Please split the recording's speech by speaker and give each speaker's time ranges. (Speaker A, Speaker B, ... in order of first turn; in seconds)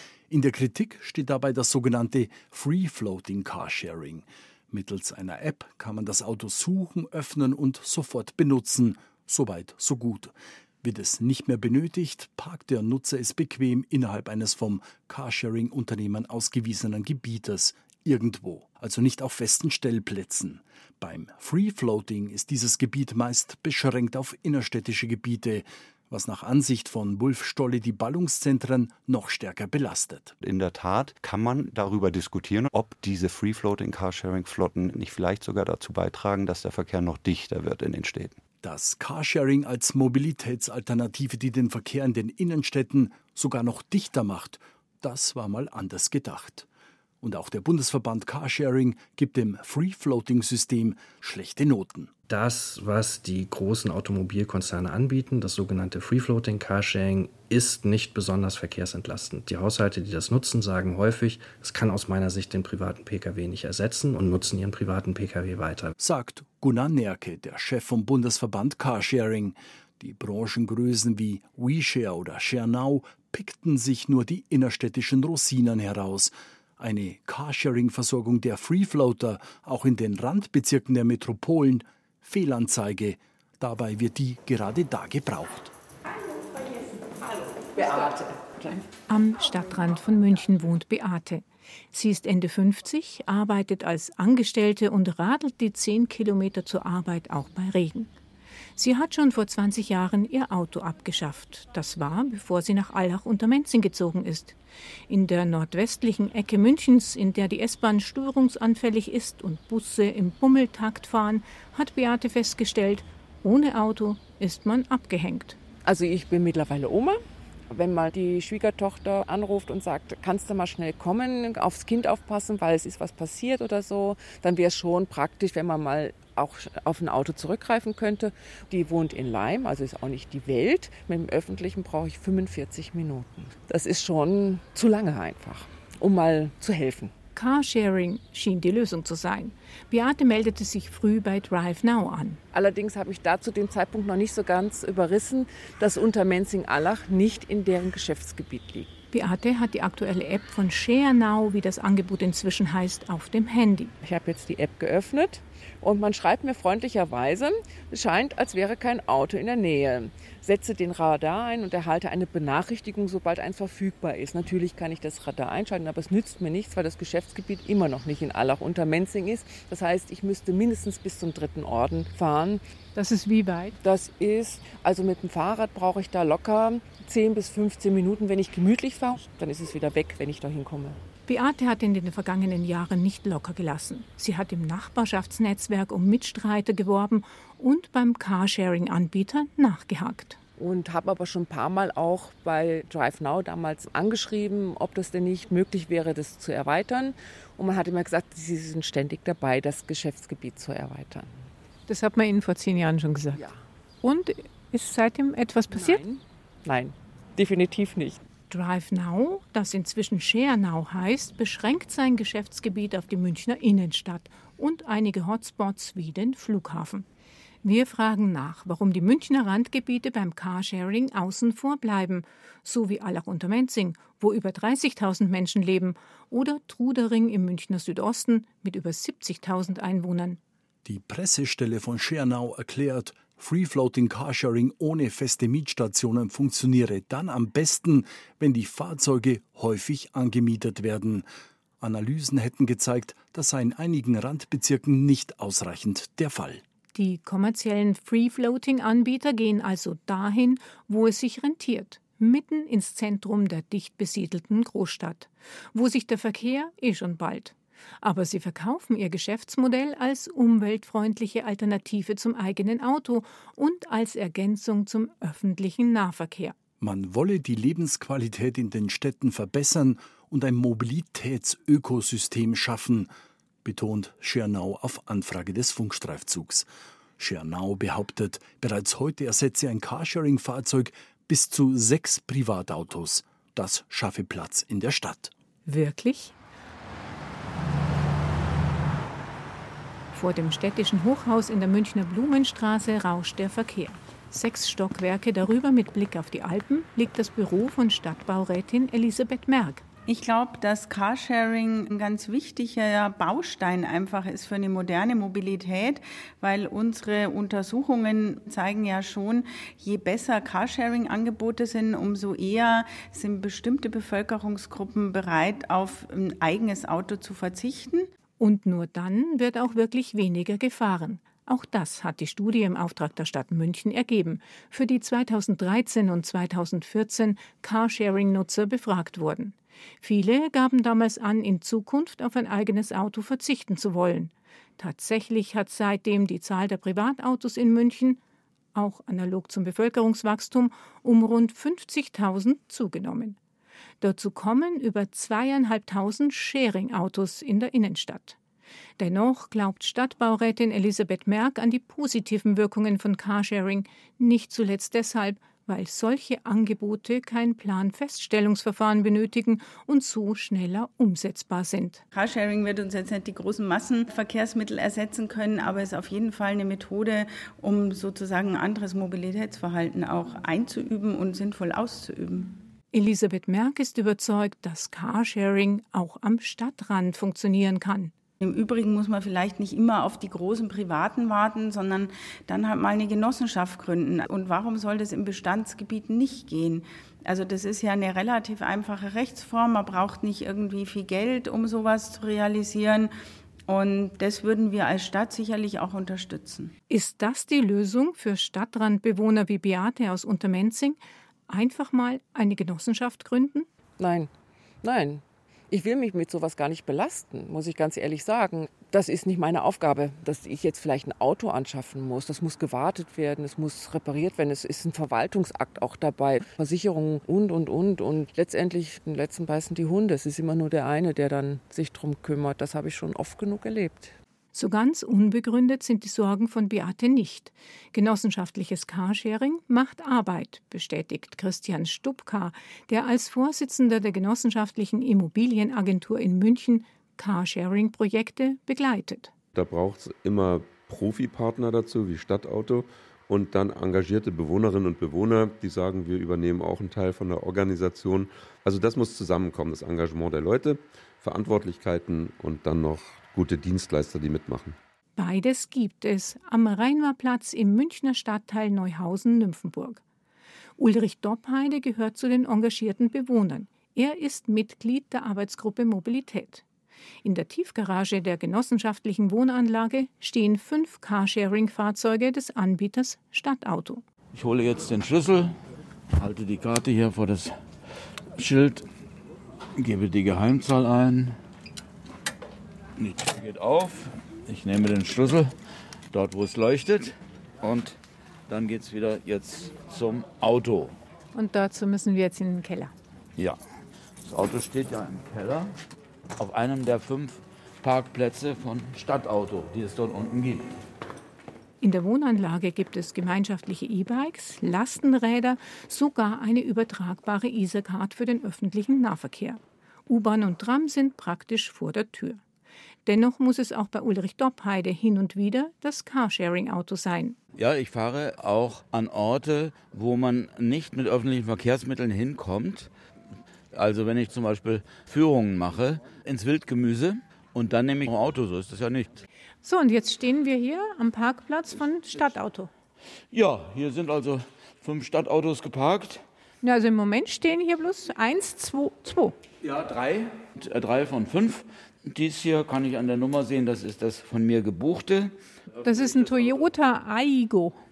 Speaker A: 0.3-30.4, 38.6-46.7, 47.2-52.1, 66.0-85.7, 230.8-241.2, 241.8-246.6, 266.8-273.1, 273.6-276.7, 277.2-285.3
Speaker B: 30.4-38.4
Speaker C: 52.3-65.9
Speaker D: 86.6-88.9, 115.8-117.2, 117.7-137.1, 142.5-148.9, 154.0-172.6, 173.8-181.0, 190.6-201.3, 205.7-208.2, 404.0-404.3, 404.8-424.1
Speaker E: 89.1-98.1, 98.8-104.6, 105.1-115.6, 137.4-142.4, 149.1-153.9, 172.9-173.7, 181.3-190.4, 201.9-203.4, 204.0-206.0, 208.5-217.1, 217.6-230.4, 246.9-266.6, 285.7-286.4, 290.1-299.8, 318.4-338.2, 338.7-343.4, 344.0-348.4, 349.0-362.0, 372.9-378.1, 396.9-403.7, 424.5-439.3, 455.2-460.0, 460.8-466.6, 467.2-474.0, 491.3-492.9, 501.8-512.4, 513.0-517.4, 529.6-532.7, 536.6-539.4, 545.8-547.8
Speaker F: 300.1-318.0, 362.1-372.5, 378.4-393.1, 393.7-396.7
Speaker G: 439.6-454.8
Speaker H: 474.4-475.5, 476.2-477.6, 478.4-478.9, 479.8-481.4, 483.0-485.5, 486.1-487.1, 487.6-487.9, 488.5-490.9, 494.3-495.7, 496.4-500.6, 517.7-522.9, 523.8-529.2, 533.3-536.2, 539.7-545.3